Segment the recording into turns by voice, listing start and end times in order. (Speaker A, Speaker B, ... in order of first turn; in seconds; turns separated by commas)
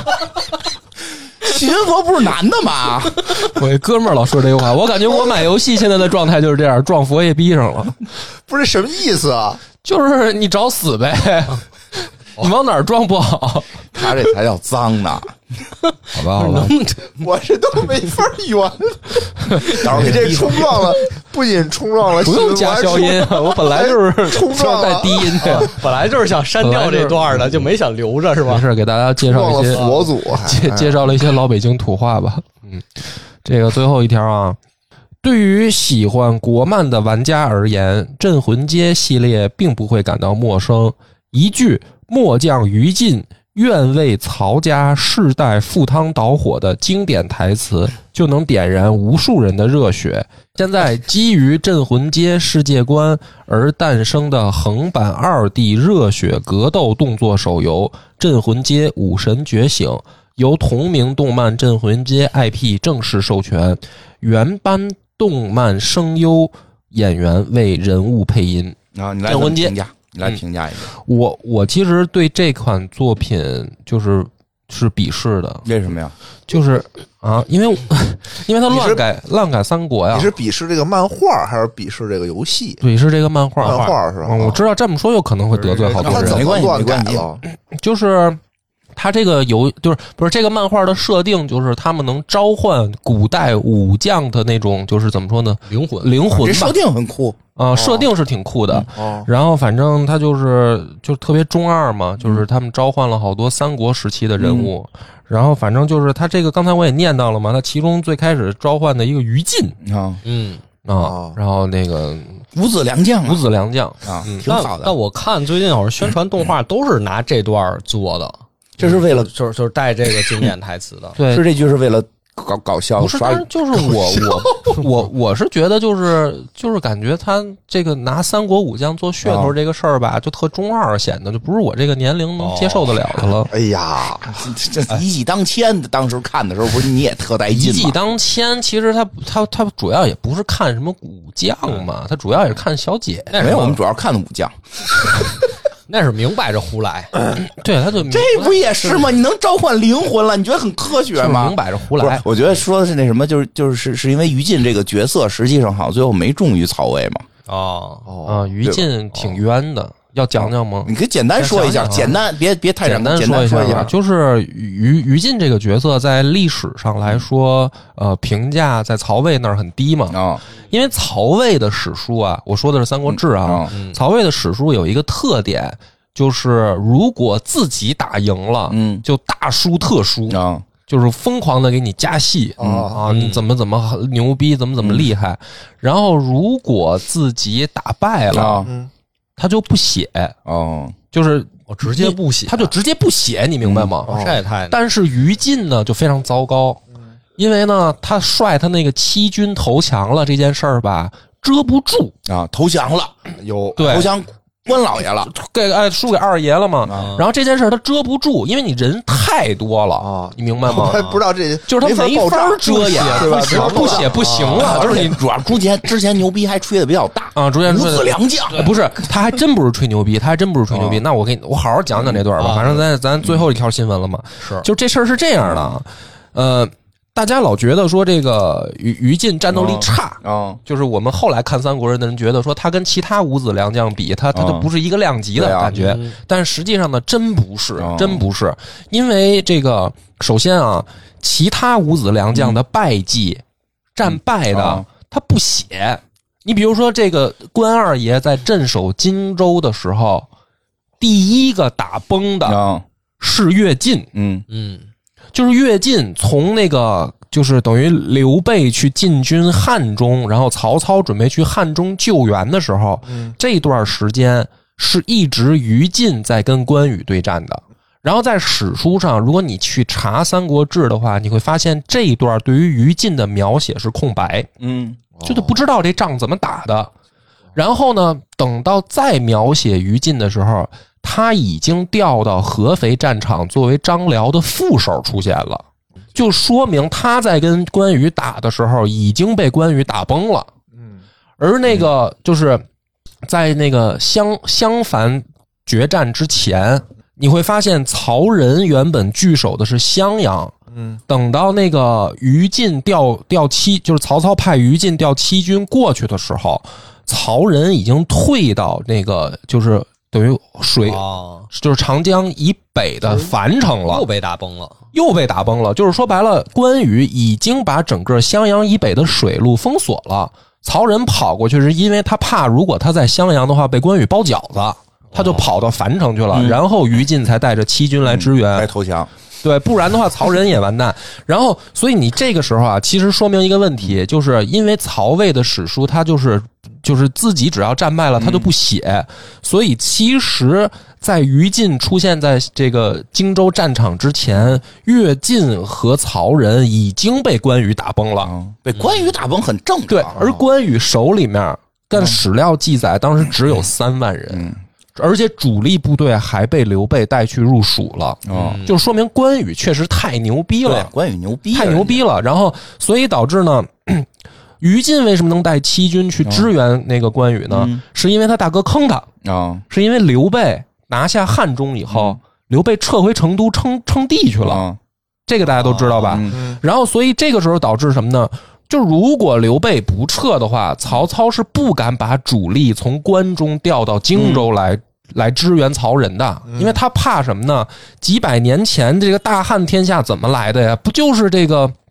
Speaker A: 1.4-3.5, Speaker B: 3.3-8.0, Speaker C: 8.5-9.6, Speaker B: 9.8-13.8, Speaker A: 13.9-15.3, Speaker B: 16.1-16.8, Speaker D: 16.2-17.2, Speaker C: 17.1-25.7, Speaker B: 19.5-20.1, Speaker A: 19.6-20.9, Speaker B: 22.2-25.7, Speaker D: 25.4-28.6, Speaker B: 26.6-27.4, Speaker B: 28.4-34.6, Speaker C: 29.2-31.0, Speaker D: 29.7-30.1, Speaker B: 35.2-75.7, Speaker A: 68.9-70.9, Speaker A: 75.6-76.1, Speaker B: 76.5-80.3, Speaker C: 78.7-79.0, Speaker C: 80.1-82.8, Speaker B: 82.8-86.5, Speaker C: 83.6-84.6, Speaker D: 83.6-83.9, Speaker D: 85.5-86.5, Speaker C: 85.9-87.4, Speaker A: 86.1-87.3, Speaker B: 87.4-88.4, Speaker B: 88.9-96.8, Speaker D: 95.7-96.1, Speaker A: 96.3-97.4, Speaker B: 97.5-109.8, Speaker C: 97.7-98.1, Speaker C: 98.9-99.3, Speaker A: 104.4-104.7, Speaker A: 109.8-110.2, Speaker D: 110.2-110.6, Speaker B: 110.8-112.5, Speaker C: 111.0-111.4, Speaker A: 112.5-113.4, Speaker B: 113.2-114.4, Speaker A: 114.0-114.9, Speaker D: 114.4-121.2, Speaker A: 118.8-119.3, Speaker B: 121.2-121.5, Speaker A: 121.3-124.1, Speaker B: 123.0-133.5, Speaker A: 129.2-129.5, Speaker D: 132.4-133.0, Speaker C: 133.5-134.3, Speaker A: 134.2-138.0, Speaker B: 137.5-143.7, Speaker D: 143.3-143.8, Speaker A: 143.3-144.6, Speaker D: 145.9-147.1, Speaker B: 147.4-149.0, Speaker A: 148.0-157.2, Speaker B: 151.1-152.2, Speaker D: 157.5-158.1, Speaker C: 158.1-158.5, Speaker B: 158.2-160.9, Speaker A: 158.6-158.9, Speaker A: 160.4-163.9, Speaker D: 161.3-162.2, Speaker B: 161.8-162.1, Speaker B: 162.8-188.7, Speaker A: 170.1-170.4, Speaker A: 173.1-173.7, Speaker D: 173.7-174.0, Speaker A: 178.7-179.0, Speaker A: 180.3-180.6, Speaker C: 182.6-183.0, Speaker A: 182.6-182.9, Speaker D: 183.1-183.4, Speaker A: 184.8-185.1, Speaker A: 188.3-188.7, Speaker B: 189.4-190.3, Speaker A: 190.4-190.9, Speaker B: 191.1-196.8, Speaker D: 191.7-192.7, Speaker A: 193.6-193.9, Speaker C: 194.1-194.4, Speaker D: 194.1-194.8, Speaker B: 197.4-202.1, Speaker A: 202.2-203.2, Speaker C: 203.4-204.0, Speaker B: 203.8-204.1, Speaker A: 203.8-205.3, Speaker B: 205.2-211.0, Speaker A: 206.8-207.2, Speaker D: 206.9-207.2, Speaker C: 210.0-214.3, Speaker D: 210.8-211.2, Speaker B: 211.7-215.2, Speaker D: 212.7-215.1, Speaker A: 214.4-218.8, Speaker B: 217.3-243.4, Speaker A: 220.7-221.0, Speaker D: 222.4-222.8, Speaker A: 225.4-225.8, Speaker A: 229.5-230.6, Speaker A: 234.3-234.7, Speaker A: 235.3-235.7, Speaker D: 235.7-236.1, Speaker A: 237.8-238.2, Speaker B: 243.9-250.3, Speaker A: 244.1-244.8, Speaker B: 251.0-252.6, Speaker A: 252.4-252.8, Speaker B: 253.2-254.1, Speaker A: 254.1-254.4, Speaker D: 254.5-254.8, Speaker B: 255.3-274.5, Speaker A: 274.6-275.0, Speaker C: 275.1-275.5, Speaker B: 275.2-276.9, Speaker B: 277.5-285.6, Speaker B: 286.1-290.5, Speaker B: 291.4-292.6, Speaker B: 293.2-300.5, Speaker B: 301.1-314.1, Speaker D: 310.8-311.5, Speaker D: 313.1-313.3, Speaker D: 313.9-314.8, Speaker B: 314.9-328.7, Speaker D: 325.1-325.4, Speaker A: 326.3-326.6, Speaker A: 328.0-329.1, Speaker B: 329.4-348.3, Speaker A: 338.2-338.5, Speaker A: 348.2-350.2, Speaker D: 348.7-349.1, Speaker B: 349.9-360.9, Speaker A: 354.3-354.6, Speaker A: 358.2-358.6, Speaker D: 358.3-358.7, Speaker A: 360.6-362.0, Speaker B: 361.5-364.1, Speaker B: 364.6-369.1, Speaker A: 367.5-367.8, Speaker A: 369.2-369.6, Speaker B: 369.7-374.6, Speaker A: 371.9-372.2, Speaker A: 374.4-374.8, Speaker B: 375.3-391.7, Speaker D: 375.6-376.0, Speaker A: 376.0-376.4, Speaker A: 384.1-384.5, Speaker C: 386.5-386.8